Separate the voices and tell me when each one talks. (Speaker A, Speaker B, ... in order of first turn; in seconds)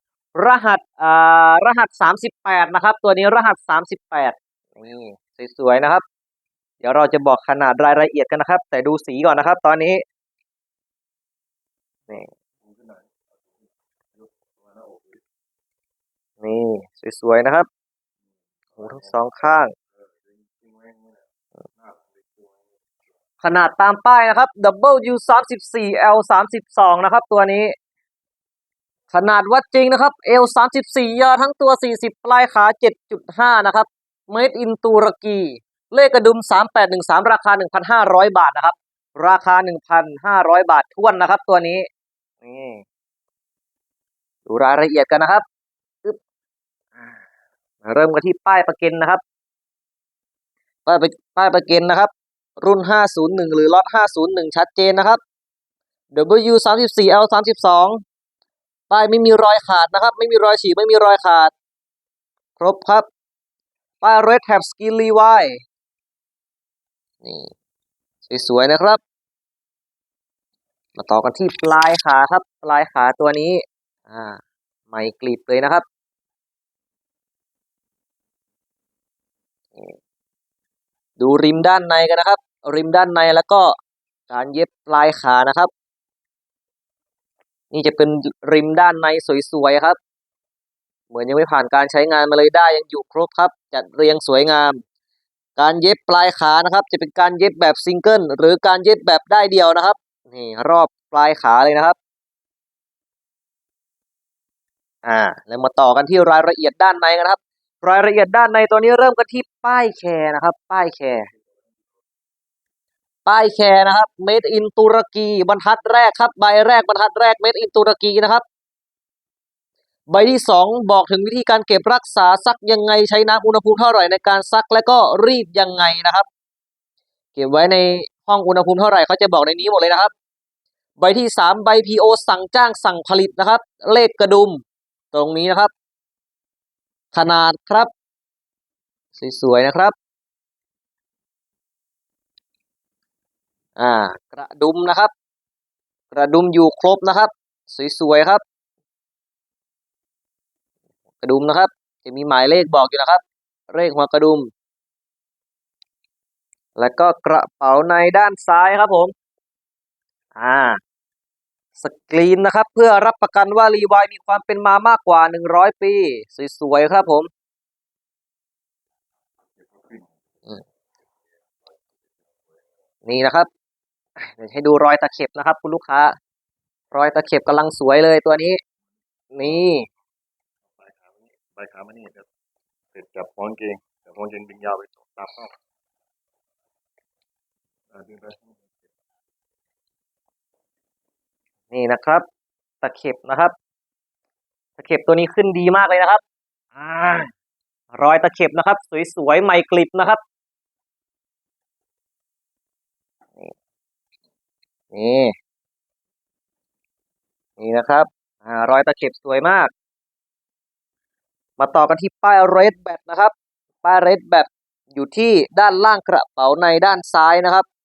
Speaker A: 0.4-6.0, 6.8-10.0, 16.4-17.7, 18.8-19.8, 23.4-27.8, 29.1-41.9, 42.4-42.9, 44.5-45.5, 47.8-49.2, 50.9-55.2, 56.1-58.0, 58.9-61.5, 62.6-63.1, 64.0-65.6, 67.2-67.5, 68.3-69.0, 71.0-75.9, 81.2-83.8, 84.3-85.7, 87.7-90.0, 91.1-94.8, 95.6-102.0, 105.0-111.3, 113.3-118.5, 120.1-126.3, 127.4-130.1, 131.0-135.7, 137.1-137.9, 139.2-139.9, 143.8-145.1, 146.1-148.4, 151.2-154.5, 156.8-159.1, 160.4-160.8, 161.8-167.3, 173.1-173.5, 174.2-176.2, 176.9-178.6, 179.3-179.9, 191.7-192.3, 192.8-193.6, 194.8-196.2, 196.8-197.3, 197.9-200.2, 204.9-205.3, 207.6-209.7, 211.6-213.3, 213.8-217.7
Speaker B: 12.7-13.5, 14.2-15.2, 20.3-21.2, 21.8-22.6, 169.6-170.2, 172.1-172.6, 180.7-182.3, 182.9-185.5, 187.9-188.9